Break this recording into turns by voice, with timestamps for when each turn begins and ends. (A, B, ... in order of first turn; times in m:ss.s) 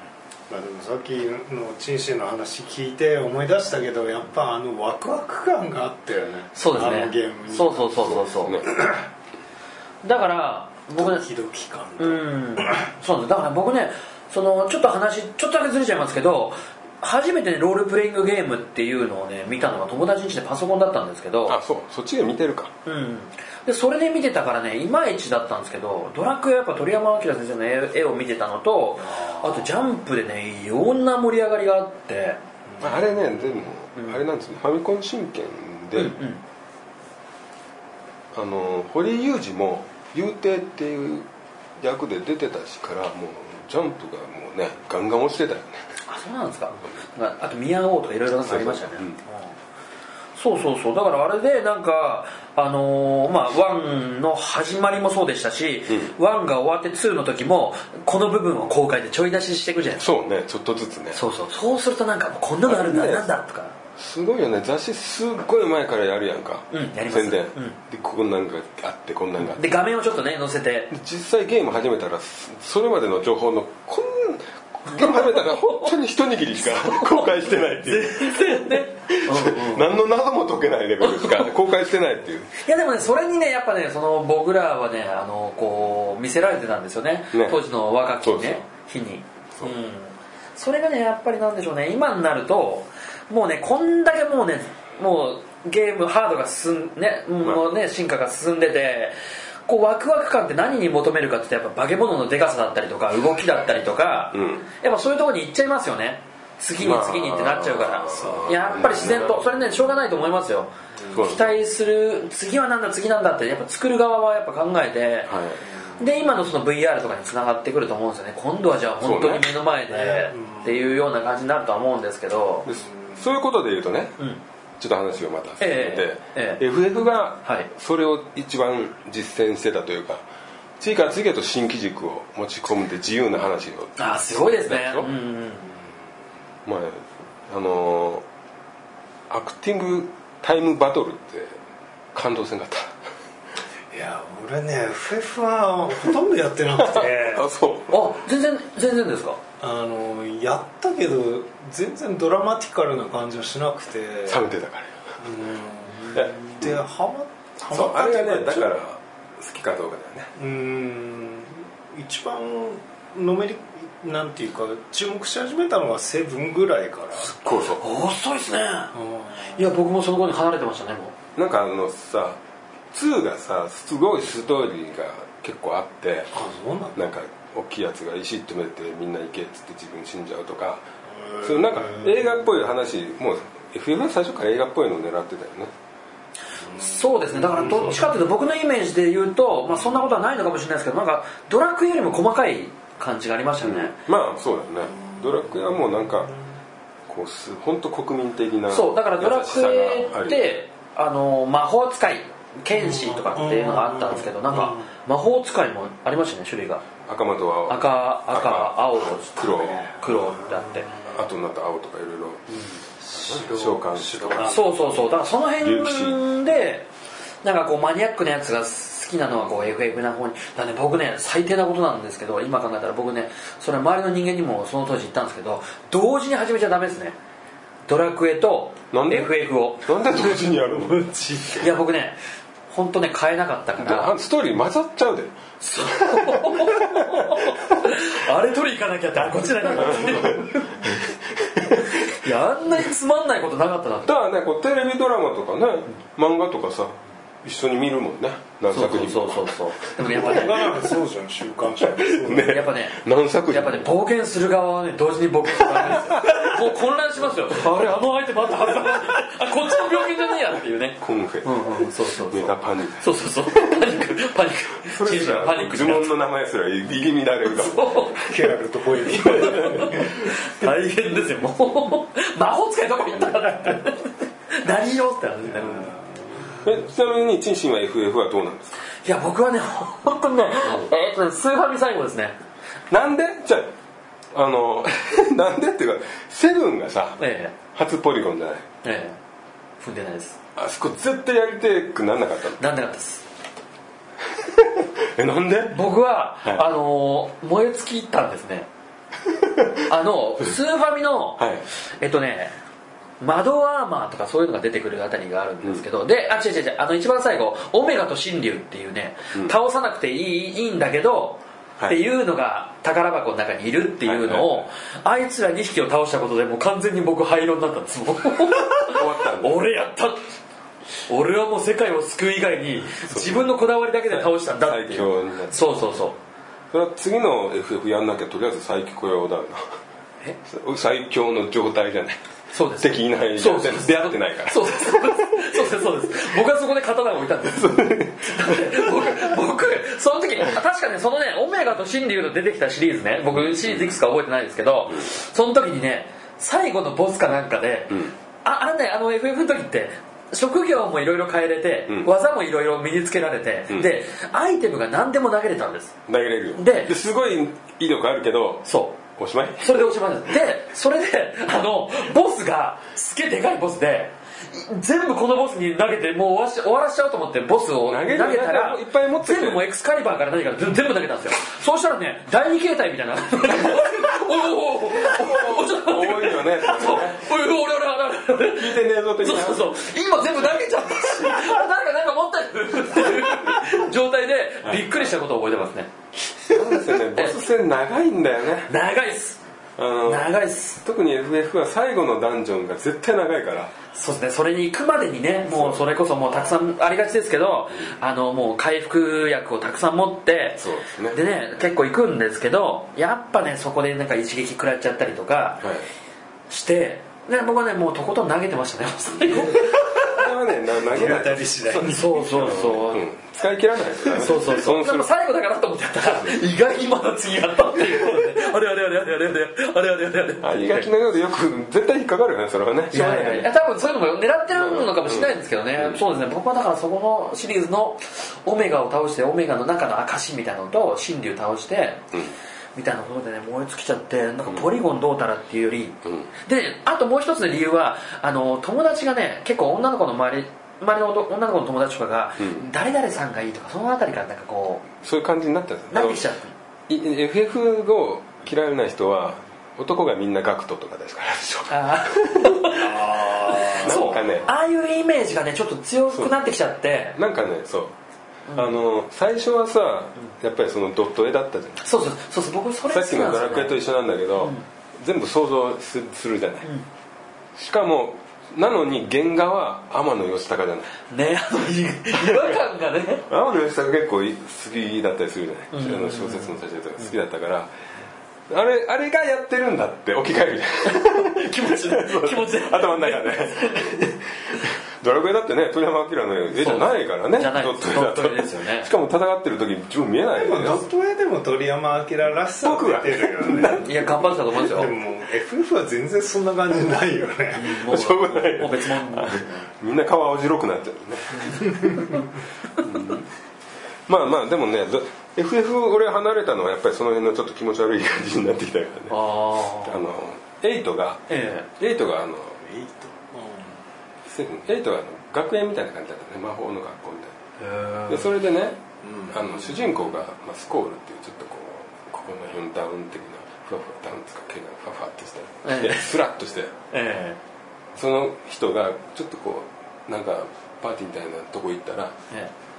0:00.5-0:09.0 A
0:06.6-0:08.6 B
0:06.7-0:07.0 C
0:08.0-0:08.8 C
0:10.0-0:11.2 B
0:11.0-0:12.8 A
0:12.0-0:21.6 B
0:21.5-0:22.7 C
0:22.8-0:32.4 B
0:29.2-0:29.4 A
0:32.8-0:36.2 C
0:33.9-0:34.2 B
0:35.9-0:36.4 B
0:38.3-0:41.3 C
0:41.8-0:45.8 C
0:46.1-0:49.6 B
0:48.4-0:49.2 C
0:50.4-1:00.0 B
1:00.0-1:01.2 C
1:01.1-1:03.7 B
1:02.6-1:03.3 C
1:04.0-1:09.8 C
1:06.7-1:07.8 B
1:09.5-1:10.9 B
1:10.9-1:22.5 C
1:14.9-1:15.9 B
1:16.6-1:19.9 B
1:21.0-1:21.5 B
1:22.6-1:39.2 B
1:27.3-1:27.6 C
1:28.2-1:28.6 C
1:39.7-1:55.3 B
1:44.3-1:44.6 C
1:46.8-1:49.5 C
1:48.1-1:49.2 A
1:51.1-1:51.6 C
1:55.3-1:55.6 C
1:55.7-1:56.1 A
1:56.0-2:02.7 B
1:59.0-1:59.5 C
1:59.9-2:00.8 A
2:02.6-2:04.2 C
2:02.8-2:03.2 A
2:04.8-2:10.2 C
2:05.6-2:06.6 B
2:07.4-2:07.7 B
2:10.8-2:15.1 C
2:14.0-2:15.7 B
2:16.6-2:18.2 C
2:19.3-2:21.6 C
2:22.1-2:23.0 C
2:23.9-2:27.5 A
2:26.8-2:28.0 C
2:27.9-2:29.4 B
2:29.6-2:34.5 A
2:34.3-2:35.1 C
2:35.2-2:38.7 A
2:36.1-2:36.7 C
2:37.7-2:40.3 C
2:40.4-2:47.3 A
2:47.2-2:48.9 B
2:47.4-2:47.8 C
2:48.9-2:49.7 A
2:49.4-2:51.1 B
2:51.4-2:52.4 C
2:52.9-2:56.3 C
2:56.3-2:57.0 A
2:56.9-3:00.8 C
3:01.2-3:02.2 A
3:01.4-3:05.7 C
3:06.7-3:13.9 B
3:07.4-3:07.9 A
3:13.6-3:16.3 C
3:17.1-3:20.5 C
3:18.7-3:26.8 B
3:22.8-3:24.8 A
3:27.0-3:29.9 C
3:27.7-3:30.9 B
3:29.9-3:31.1 A
3:31.0-3:34.6 C
3:33.0-3:34.8 A
3:34.4-3:36.9 B
3:35.6-3:36.2 C
3:37.4-3:47.2 B
3:47.9-3:49.8 B
3:48.9-3:51.0 C
3:50.3-3:51.6 A
3:51.5-3:52.2 B
3:52.7-3:54.1 B
3:53.8-3:57.9 C
3:55.6-4:01.0 B
3:59.7-4:02.0 C
4:01.9-4:04.1 B
4:04.0-4:10.7 C
4:08.7-4:10.7 B
4:10.0-4:12.6 A
4:11.8-4:13.9 C
4:12.3-4:13.0 B
4:13.5-4:26.1 B
4:15.6-4:16.4 C
4:17.5-4:17.9 C
4:21.0-4:21.6 C
4:22.3-4:24.1 C
4:24.8-4:28.3 C
4:27.5-4:28.2 B
4:28.2-4:30.3 A
4:29.1-4:30.1 C
4:29.2-4:35.9 B
4:35.7-4:36.5 A
4:36.6-4:38.8 C
4:39.0-4:42.4 B
4:42.9-4:43.7 C
4:44.3-4:47.2 C
4:47.2-4:47.6 B
4:47.7-4:48.7 C
4:48.8-4:49.2 B
4:49.8-4:50.4 B
4:50.6-4:52.6 C
4:52.6-4:53.2 B
4:54.3-4:55.8 C
4:55.7-4:58.7 B
4:59.3-4:59.9 C
4:59.9-5:02.5 B
5:01.4-5:01.6 C
5:03.2-5:20.2 B
5:14.0-5:14.6 C
5:18.8-5:19.6 C
5:21.1-5:26.2 B
5:23.0-5:23.5 C
5:24.1-5:25.6 C
5:26.7-5:29.6 C
5:30.4-5:32.2 C
5:32.5-5:56.0 B
5:32.8-5:35.8 C
5:37.4-5:39.3 C
5:43.3-5:44.0 C
5:56.1-5:59.8 C
5:56.5-5:56.9 B
5:58.6-5:59.0 B
5:59.6-6:25.9 B
6:07.8-6:09.6 C
6:15.0-6:17.3 C
6:18.4-6:19.8 C
6:24.6-6:25.0 C
6:26.5-6:27.4 B
6:26.5-6:28.7 C
6:28.7-6:29.4 B
6:29.8-6:30.3 C
6:30.0-6:30.8 B
6:30.8-6:33.7 C
6:33.9-6:45.7 B
6:35.5-6:36.5 C
6:40.6-6:41.2 C
6:45.6-6:45.9 C
6:46.5-6:50.1 B
6:49.6-6:55.1 C
6:50.8-6:52.5 A
6:51.8-6:53.0 B
6:54.0-7:00.9 B
6:56.0-6:56.4 C
7:00.4-7:03.5 C
7:02.9-7:12.1 B
7:04.5-7:06.0 C
7:12.7-7:24.9 B
7:16.0-7:16.3 C
7:22.4-7:22.6 C
7:24.9-7:26.2 C
7:25.9-7:26.5 B
7:26.9-7:32.7 C
7:31.7-7:37.2 B
7:32.8-7:34.0 A
7:33.5-7:34.5 C
7:36.1-7:36.4 C
7:37.1-7:37.9 C
7:38.5-7:38.8 B
7:38.5-7:41.8 C
7:41.8-7:43.8 B
7:42.9-7:46.7 C
7:44.4-7:44.6 B
7:47.6-7:50.9 C
7:51.1-7:53.2 B
7:52.1-7:52.6 C
7:53.3-7:57.7 C
7:55.7-7:57.1 B
7:58.5-8:10.8 C
8:00.8-8:04.1 B
8:06.5-8:08.9 B
8:10.3-8:14.0 A
8:12.6-8:14.4 C
8:13.7-8:14.9 B
8:14.6-8:17.7 A
8:17.5-8:19.7 B
8:17.8-8:22.1 C
8:22.8-8:23.3 C
8:24.1-8:29.2 C
8:29.1-8:30.0 B
8:29.8-8:32.6 C
8:31.3-8:31.7 B
8:32.6-8:33.7 A
8:34.2-8:37.3 C
8:37.6-8:38.4 B
8:38.1-8:46.7 C
8:39.0-8:39.9 A
8:45.6-8:46.1 B
8:46.9-8:47.4 B
8:47.9-8:52.2 C